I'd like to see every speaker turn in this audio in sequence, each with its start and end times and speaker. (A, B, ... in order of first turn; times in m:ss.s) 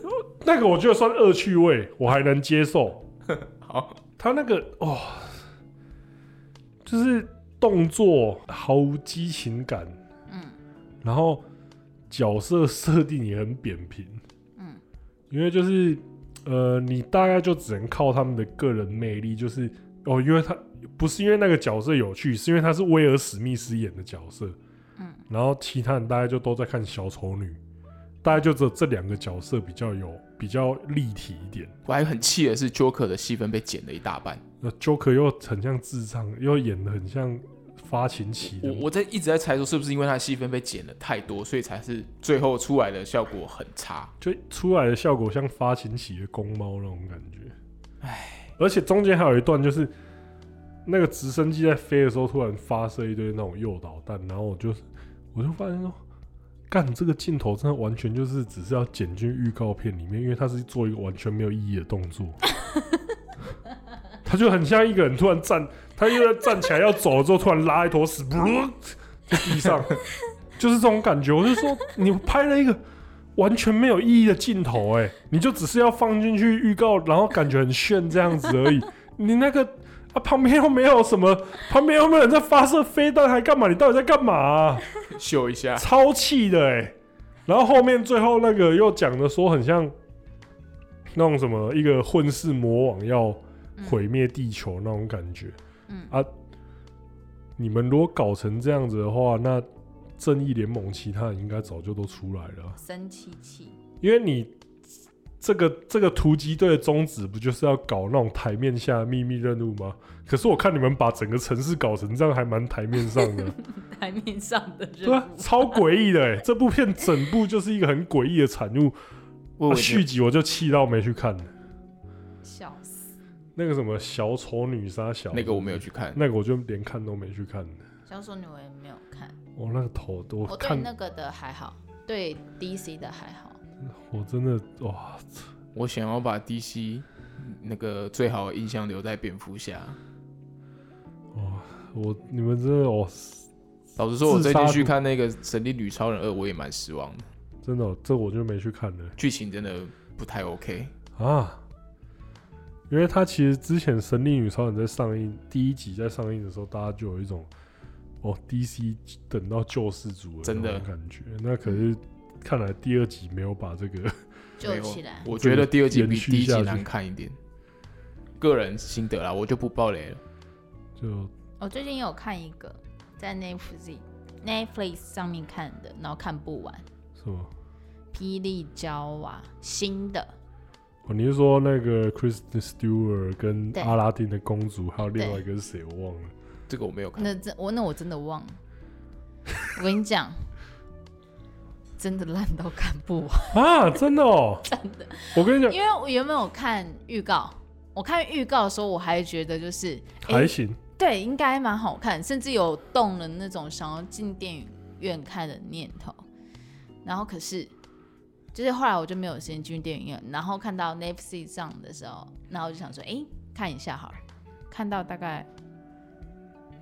0:00.4-0:03.0 A
0:03.3-0:04.0 B
0:04.2-0:05.4 A
0:06.8-0:10.0 A
0:10.3-0:10.6 C
0:11.0-0:11.4 A
0:12.1-0:14.2 A
0:14.6-0:14.8 C
0:15.3-0:24.6 A
0:25.0-0:25.2 C
0:25.3-0:27.6 A
0:28.2-0:31.7 A
0:31.8-0:34.4 B
0:34.6-0:38.9 A
0:38.6-0:44.1 B
0:44.2-0:47.5 A
0:48.0-0:48.5 B
0:48.6-0:49.9 A
0:50.9-0:56.0 A
0:56.7-1:02.4 A
1:04.2-1:10.0 A
1:10.6-1:12.8 A
1:13.4-1:24.9 A
1:25.1-1:25.8 B
1:25.8-1:27.0 A
1:27.5-1:29.9 A
1:31.2-1:35.6 A
1:35.9-1:36.2 C
1:37.6-1:39.7 A
1:40.2-1:42.8 A
1:42.8-1:43.8 C
1:44.0-1:44.6 A
1:45.4-1:53.6 A
1:53.2-1:55.8 C
1:55.0-1:59.0 A
1:59.6-2:00.1 B
1:59.7-2:01.5 A
2:02.4-2:03.1 C
2:03.6-2:07.8 A
2:05.3-2:06.2 B
2:08.1-2:09.4 C
2:09.6-2:10.9 A
2:10.5-2:13.6 C
2:13.9-2:15.5 A
2:15.7-2:20.0 B
2:21.4-2:23.5 A
2:24.0-2:27.3 B
2:24.2-2:24.9 A
2:27.6-2:29.2 A
2:29.2-2:30.9 B
2:31.2-2:31.6 A
2:32.9-2:37.5 A
2:38.2-2:44.2 A
2:40.4-2:40.9 B
2:44.6-2:45.3 C
2:44.6-2:47.4 B
2:45.4-2:46.9 A
2:48.4-2:50.2 B
2:51.0-2:51.3 A
2:51.6-2:56.9 C
2:57.2-2:57.5 A
2:58.1-3:00.3 C
3:01.1-3:06.3 A
3:05.2-3:05.4 C
3:06.7-3:07.3 B
3:07.2-3:08.6 C
3:09.7-3:10.5 C
3:12.0-3:13.6 C
3:13.5-3:14.7 A
3:14.7-3:26.2 C
3:15.3-3:15.8 A
3:20.2-3:20.8 A
3:27.0-3:27.7 C
3:28.5-3:35.5 C